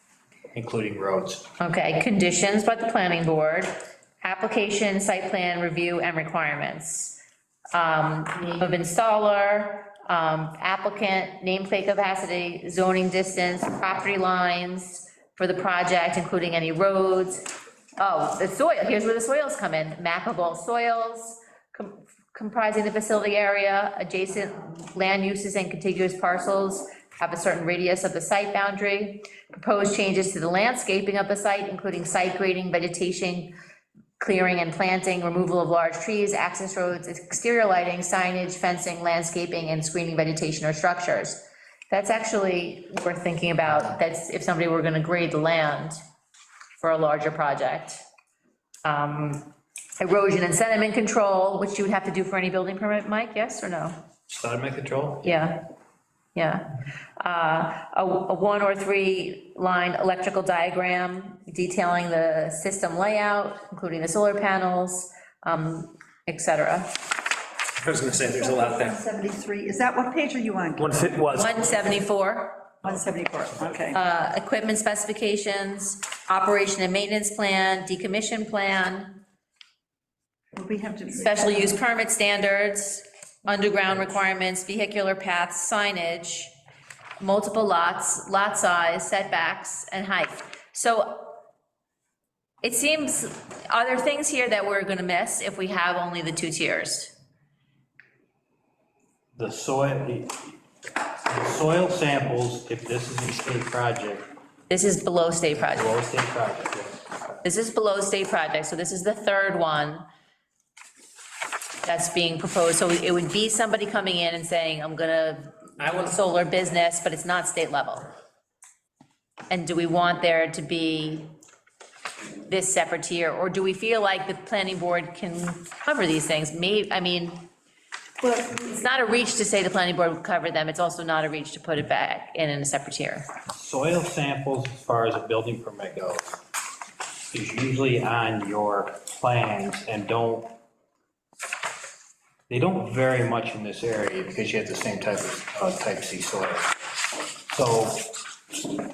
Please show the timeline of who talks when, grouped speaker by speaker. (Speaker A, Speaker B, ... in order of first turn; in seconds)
Speaker A: 0.5-1.5, 54.3-55.4, 99.3-100.6, 101.3-104.3, 105.6-107.1, 133.5-136.4, 137.3-140.5, 142.5-146.7, 147.4-148.1
Speaker B: 1.6-7.2, 7.8-17.4, 18.0-33.5, 34.2-46.0, 46.8-48.0, 48.9-54.0, 55.2-55.6, 56.4-56.6, 57.2-66.9, 71.3-72.7, 73.9-79.2, 81.1-86.5, 87.2-91.4, 92.6-97.2, 104.7-105.9, 107.4-110.0, 111.8-118.1, 119.5-121.3, 122.5-127.4, 128.4-133.3
Speaker C: 67.8-69.0, 70.8-71.7
Speaker D: 68.2-71.4, 72.8-74.0, 80.6-81.8